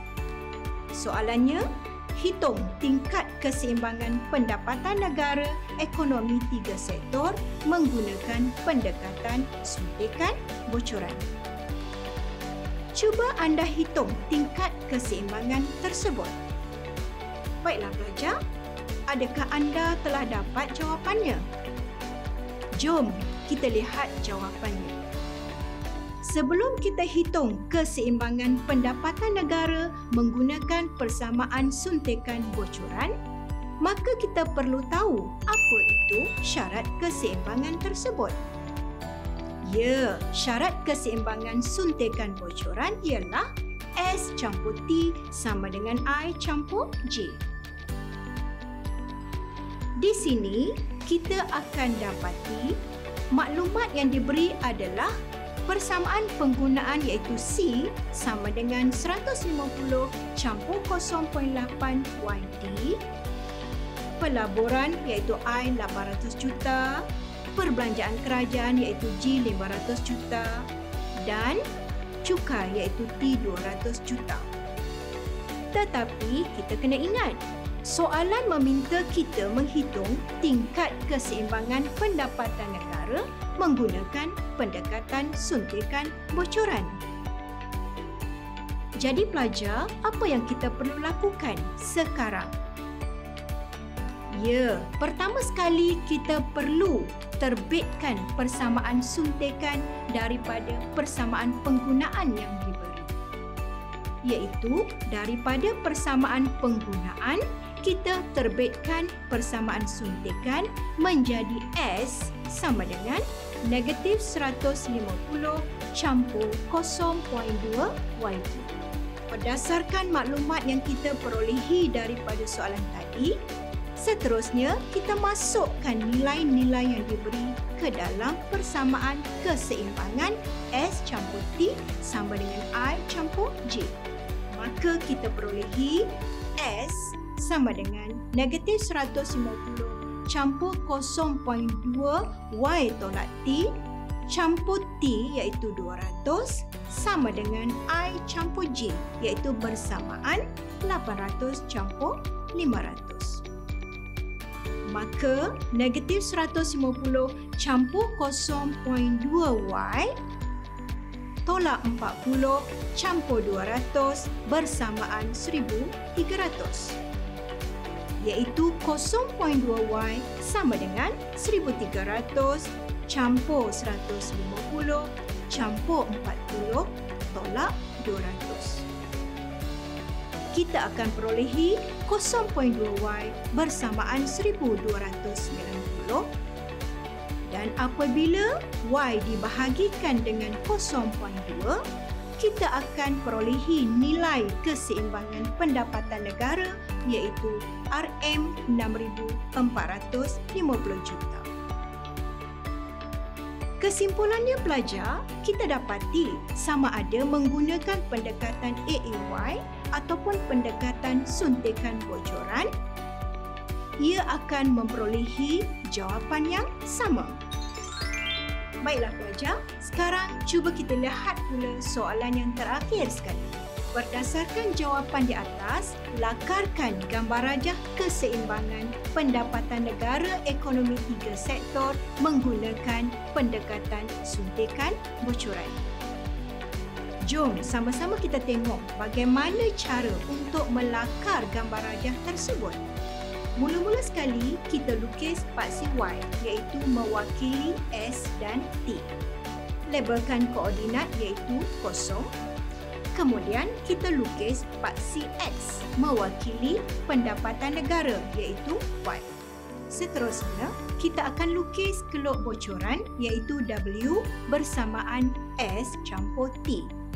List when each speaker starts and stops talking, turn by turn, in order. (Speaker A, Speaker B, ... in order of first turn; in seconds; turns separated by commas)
Speaker A: 0.9-11.3, Speaker A: 12.9-16.4, Speaker A: 17.6-18.4, Speaker A: 19.1-21.5, Speaker A: 22.8-25.0, Speaker A: 26.2-33.1, Speaker A: 33.8-38.4, Speaker A: 39.6-43.5, Speaker A: 44.0-47.4, Speaker A: 50.0-55.1, Speaker A: 55.6-63.0, Speaker A: 64.2-70.7, Speaker A: 71.2-71.7, Speaker A: 72.2-74.5, Speaker A: 75.7-87.0, Speaker A: 89.0-92.5, Speaker A: 94.3-103.1, Speaker A: 104.3-118.7, Speaker A: 119.3-123.4, Speaker A: 124.0-134.0, Speaker A: 134.5-153.4, Speaker A: 154.9-160.1, Speaker A: 161.5-167.0, Speaker A: 168.2-178.9, Speaker A: 180.5-186.3, Speaker A: 187.5-191.8, Speaker A: 192.4-201.5, Speaker A: 203.8-212.7, Speaker A: 214.0-217.4, Speaker A: 218.8-235.8, Speaker A: 237.3-242.9, Speaker A: 243.6-249.1, Speaker A: 249.9-252.3, Speaker A: 253.1-259.3, Speaker A: 259.9-266.9